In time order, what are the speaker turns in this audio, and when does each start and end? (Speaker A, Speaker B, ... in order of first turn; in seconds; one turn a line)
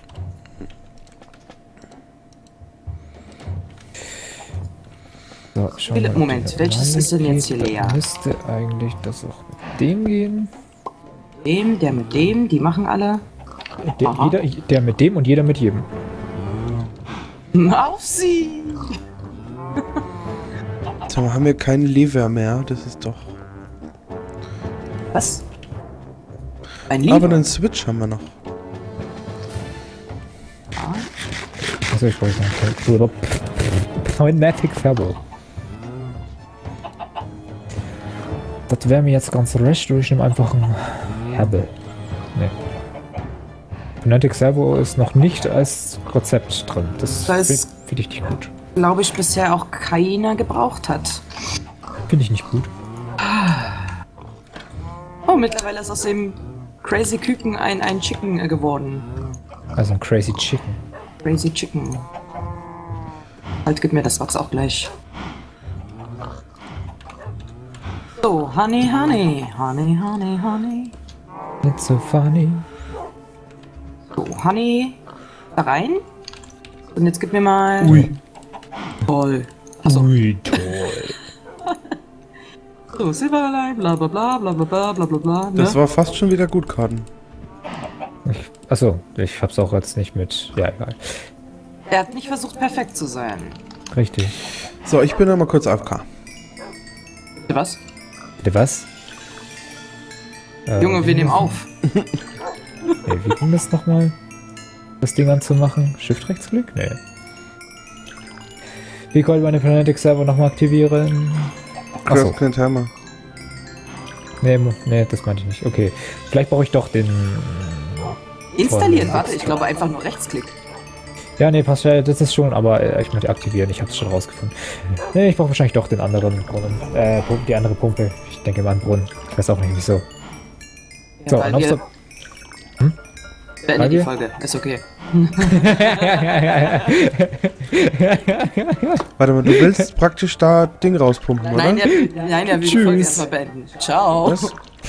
Speaker A: 5.5-10.5
Speaker B: 5.8-8.0
Speaker B: 11.4-13.2
Speaker A: 13.8-15.9
Speaker B: 14.0-14.4
Speaker B: 17.5-19.0
Speaker C: 21.1-23.3
Speaker B: 25.1-25.4
Speaker B: 26.9-27.4
Speaker C: 27.0-28.3
Speaker B: 30.8-31.1
Speaker A: 31.9-35.2
Speaker A: 38.7-41.7
Speaker A: 44.0-48.5
Speaker B: 47.2-47.6
Speaker B: 48.7-51.2
Speaker A: 52.1-52.7
Speaker B: 53.2-53.9
Speaker B: 55.2-59.1
Speaker A: 59.8-60.8
Speaker B: 61.2-62.1
Speaker B: 63.6-64.9
Speaker B: 68.2-70.9
Speaker A: 71.6-72.6
Speaker B: 74.1-75.0
Speaker B: 75.5-76.0
Speaker B: 76.9-78.1
Speaker A: 77.8-78.2
Speaker B: 79.0-81.1
Speaker A: 79.9-81.2
Speaker B: 81.7-81.9
Speaker B: 82.9-85.8
Speaker C: 85.5-87.1
Speaker A: 88.2-91.3
Speaker B: 91.9-93.6
Speaker A: 93.9-94.4
Speaker C: 94.8-96.0
Speaker B: 97.4-97.8
Speaker A: 98.4-98.9
Speaker A: 100.7-101.6
Speaker B: 100.8-101.7
Speaker A: 103.0-104.1
Speaker A: 105.0-107.0
Speaker A: 109.1-111.5
Speaker C: 112.0-112.9
Speaker A: 112.1-112.4
Speaker A: 114.4-119.6
Speaker B: 118.5-120.6
Speaker A: 121.4-130.0
Speaker B: 131.2-131.8
Speaker A: 131.3-131.8
Speaker B: 133.6-136.9
Speaker A: 133.8-134.1
Speaker A: 135.4-139.9
Speaker C: 139.2-141.8
Speaker B: 141.5-144.5
Speaker A: 141.9-143.3
Speaker C: 144.2-144.6